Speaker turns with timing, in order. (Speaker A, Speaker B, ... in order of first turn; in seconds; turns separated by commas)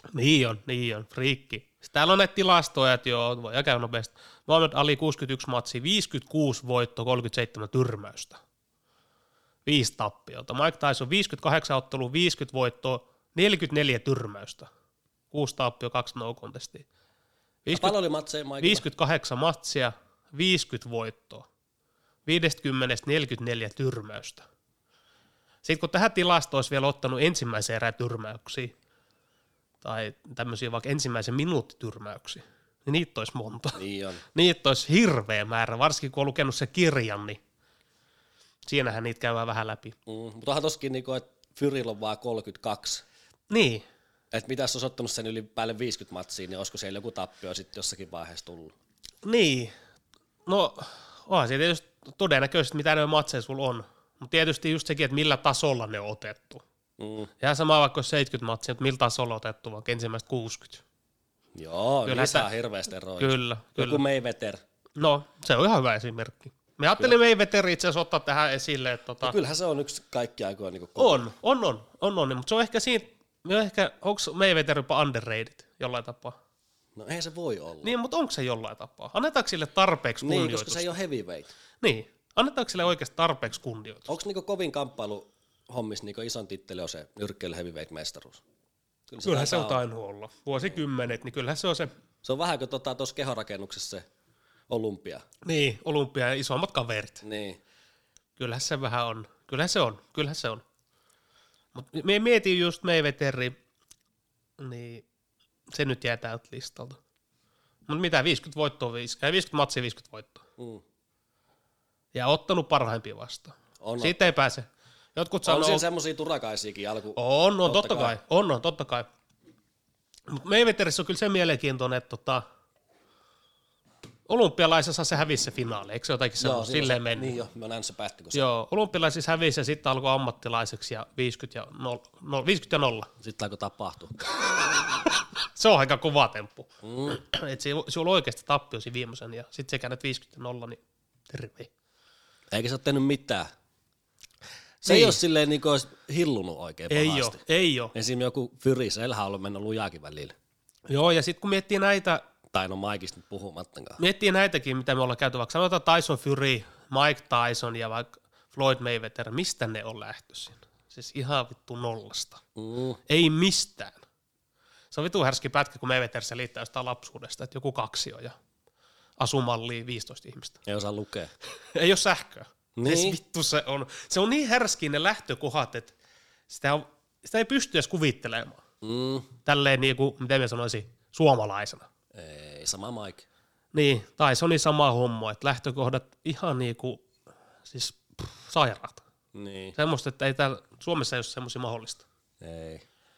Speaker A: 0.1-8.4, Speaker A: 9.7-14.7, Speaker A: 15.3-16.9, Speaker A: 17.6-18.0, Speaker B: 17.7-18.9, Speaker A: 18.6-21.5, Speaker A: 22.3-24.4, Speaker A: 25.6-28.7, Speaker A: 29.8-33.8, Speaker B: 33.8-34.2, Speaker A: 34.3-37.4, Speaker A: 38.7-40.0, Speaker B: 40.1-43.0, Speaker A: 43.5-43.9, Speaker B: 44.3-48.7, Speaker A: 49.2-49.7, Speaker A: 50.5-56.6, Speaker B: 57.0-57.3, Speaker A: 57.4-60.8, Speaker B: 61.6-64.6, Speaker A: 62.1-62.5, Speaker A: 63.2-64.0, Speaker A: 65.0-69.3, Speaker B: 69.2-71.2, Speaker A: 71.0-76.4, Speaker B: 77.0-78.0, Speaker A: 77.8-81.0, Speaker B: 80.2-81.5, Speaker A: 81.8-84.1, Speaker B: 84.1-88.4, Speaker B: 89.1-89.8, Speaker A: 89.2-91.9, Speaker B: 92.2-94.0, Speaker B: 94.7-95.2, Speaker A: 95.5-97.2, Speaker B: 97.2-97.6, Speaker A: 98.4-100.6, Speaker A: 101.8-103.5, Speaker A: 104.6-105.0, Speaker A: 105.7-107.0, Speaker A: 107.9-110.5, Speaker A: 112.1-115.8, Speaker B: 113.8-114.2, Speaker B: 115.5-118.2, Speaker A: 117.2-119.1, Speaker A: 120.3-122.4, Speaker A: 124.3-127.4, Speaker B: 126.4-128.5, Speaker A: 128.3-133.1, Speaker B: 133.2-134.2, Speaker A: 135.0-141.7, Speaker B: 136.8-137.2, Speaker B: 142.5-143.5, Speaker A: 144.8-145.2, Speaker B: 144.8-147.4, Speaker A: 146.9-147.9, Speaker B: 147.9-150.3, Speaker A: 150.9-152.2, Speaker B: 152.5-154.0, Speaker A: 154.0-162.4, Speaker B: 162.6-163.0, Speaker A: 163.1-164.0, Speaker A: 164.9-168.3, Speaker A: 169.2-170.6, Speaker B: 170.7-171.3, Speaker A: 171.7-175.9, Speaker B: 172.8-173.2, Speaker A: 176.5-178.6, Speaker B: 178.8-179.3, Speaker A: 179.4-181.9, Speaker B: 182.1-183.2, Speaker A: 183.7-187.0, Speaker A: 187.7-189.0, Speaker B: 189.3-189.8, Speaker A: 189.8-192.1, Speaker B: 192.4-192.8